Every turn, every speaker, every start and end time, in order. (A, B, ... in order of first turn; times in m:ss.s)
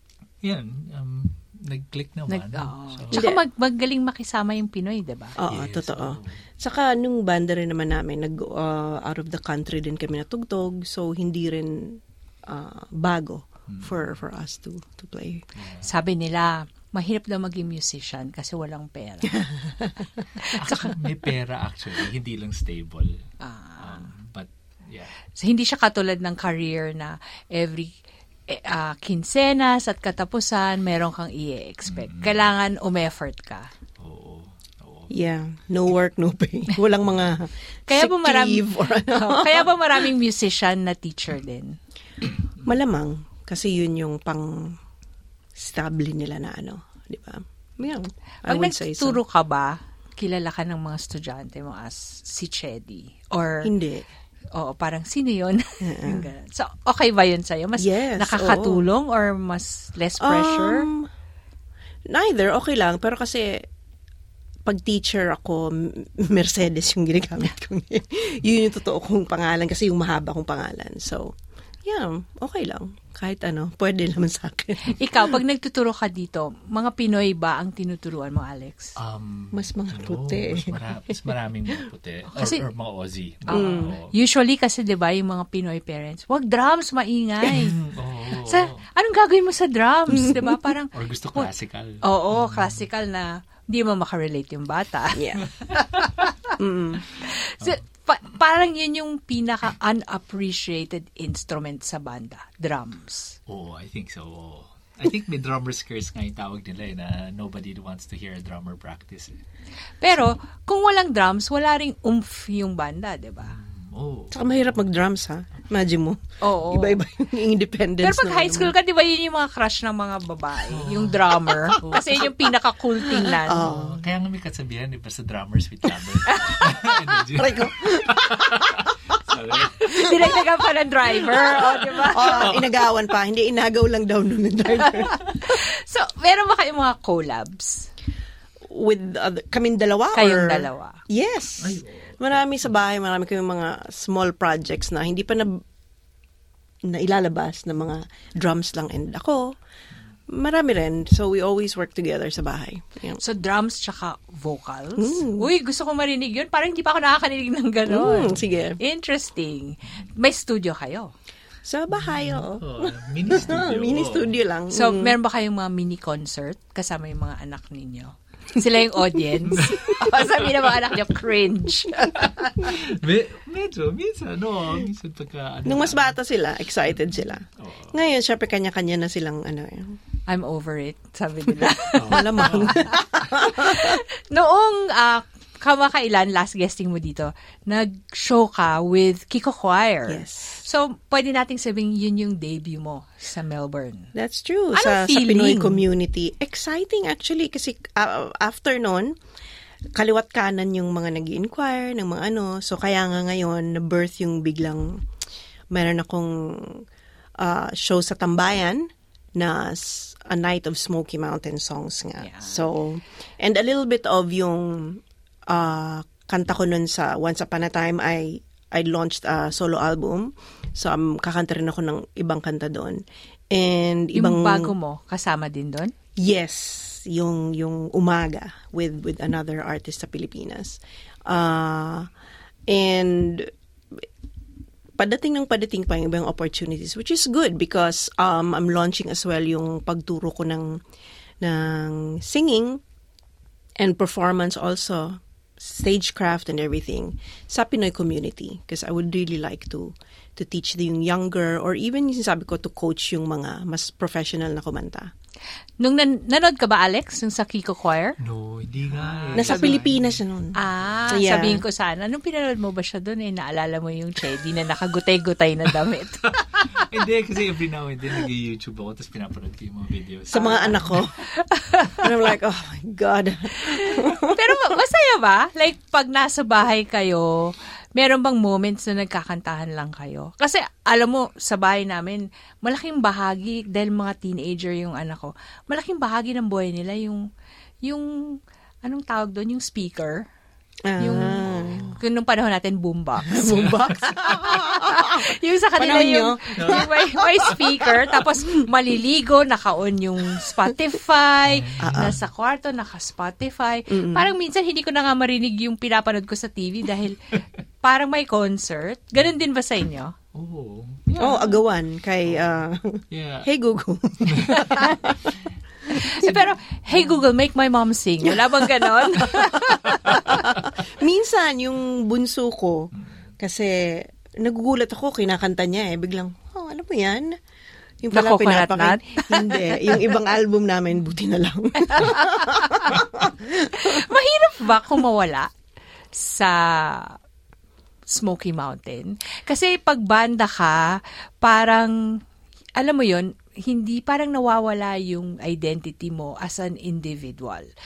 0:00.4-0:03.3 A
0:02.3-0:05.4 B
0:03.1-0:03.4 C
0:05.4-0:15.4 C
0:05.5-0:06.4 A
0:13.7-0:14.2 A
0:15.6-0:15.9 A
0:15.8-0:19.4 B
0:19.7-0:20.0 C
0:20.4-0:21.0 B
0:20.5-0:23.2 A
0:23.4-0:24.0 B
0:23.8-0:25.2 A
0:25.3-0:27.9 B
0:28.5-0:33.7 B
0:31.9-0:32.5 A
0:34.0-0:35.1 A
0:35.1-0:40.1 C
0:37.9-0:41.8 B
0:42.6-0:44.8 C
0:45.6-0:49.2 C
0:48.4-0:53.7 B
0:53.6-0:54.0 C
0:54.5-1:00.9 B
0:55.8-0:56.3 C
0:57.8-0:58.9 C
1:00.2-1:01.1 C
1:02.1-1:03.6 C
1:04.6-1:11.3 C
1:11.8-1:15.4 C
1:14.9-1:18.9 B
1:19.0-1:24.1 A
1:19.5-1:20.8 C
1:22.3-1:22.6 B
1:23.5-1:24.0 C
1:23.5-1:27.8 B
1:27.5-1:28.8 A
1:28.3-1:31.5 B
1:30.2-1:30.5 C
1:30.9-1:32.8 A
1:32.0-1:35.8 B
1:35.1-1:35.4 C
1:36.6-1:37.0 C
1:37.2-1:43.4 B
1:43.5-1:49.4 A
1:50.0-1:53.6 B
1:53.4-1:55.0 A
1:54.3-1:58.8 C
1:56.4-1:57.0 B
1:58.0-2:03.6 B
2:00.7-2:01.4 A
2:01.7-2:02.3 C
2:03.0-2:04.0 C
2:03.6-2:10.4 A
2:06.3-2:06.9 B
2:07.4-2:08.7 C
2:09.8-2:12.5 B
2:11.3-2:12.7 A
2:12.1-2:15.2 C
2:14.8-2:17.9 B
2:18.7-2:25.6 C
2:20.1-2:21.0 B
2:21.6-2:22.5 A
2:26.9-2:29.5 C
2:30.3-2:33.2 C
2:33.2-2:41.1 B
2:35.0-2:35.5 C
2:37.9-2:38.8 C
2:38.2-2:38.5 A
2:41.6-2:45.2 C
2:41.9-2:44.4 A
2:44.7-2:52.6 B
2:49.5-2:50.1 A
2:52.2-2:56.2 A
2:55.6-3:00.0 C
2:56.9-2:58.0 A
3:00.3-3:14.1 B
3:01.9-3:03.1 A
3:02.0-3:04.0 C
3:10.1-3:10.6 C
3:14.1-3:19.1 C
3:14.7-3:15.8 B
3:19.9-3:25.0 C
3:25.7-3:26.8 C
3:27.4-3:44.7 C
3:32.2-3:32.6 B
3:44.2-3:45.9 B
3:46.2-3:52.1 C
3:52.7-3:54.0 C
3:55.0-4:00.8 C
4:01.4-4:02.8 C
4:03.8-4:15.1 C
4:15.8-4:18.2 B
4:18.2-4:20.2 A
4:18.9-4:19.8 B
4:19.3-4:20.6 C
4:20.6-4:26.7 B
4:20.8-4:21.3 A
4:21.1-4:21.6 C
4:26.3-4:31.0 A
4:30.3-4:31.2 C
4:31.6-4:32.0 B
4:31.9-4:34.5 C
4:33.8-4:47.2 B
4:47.8-4:50.2 B
4:50.8-4:51.9 C
4:51.0-5:07.3 B
4:51.0-4:52.0 A
4:53.2-4:55.2 C
4:53.5-4:53.9 A
4:55.8-4:57.8 C
4:56.6-4:57.4 A
5:01.4-5:02.2 A
5:01.8-5:02.2 C
5:03.9-5:04.3 C
5:07.8-5:10.1 B
5:10.3-5:11.6 A
5:11.2-5:15.3 C
5:12.2-5:13.5 A
5:14.2-5:15.0 A
5:15.9-5:16.3 C
5:15.9-5:20.4 B
5:18.2-5:22.9 C
5:23.4-5:27.4 C
5:28.0-5:34.0 C
5:28.1-5:30.0 B
5:31.9-5:32.8 B
5:33.7-5:35.5 B
5:36.1-5:37.1 B
5:38.1-5:40.8 B
5:41.4-5:41.9 B
5:42.8-5:47.7 B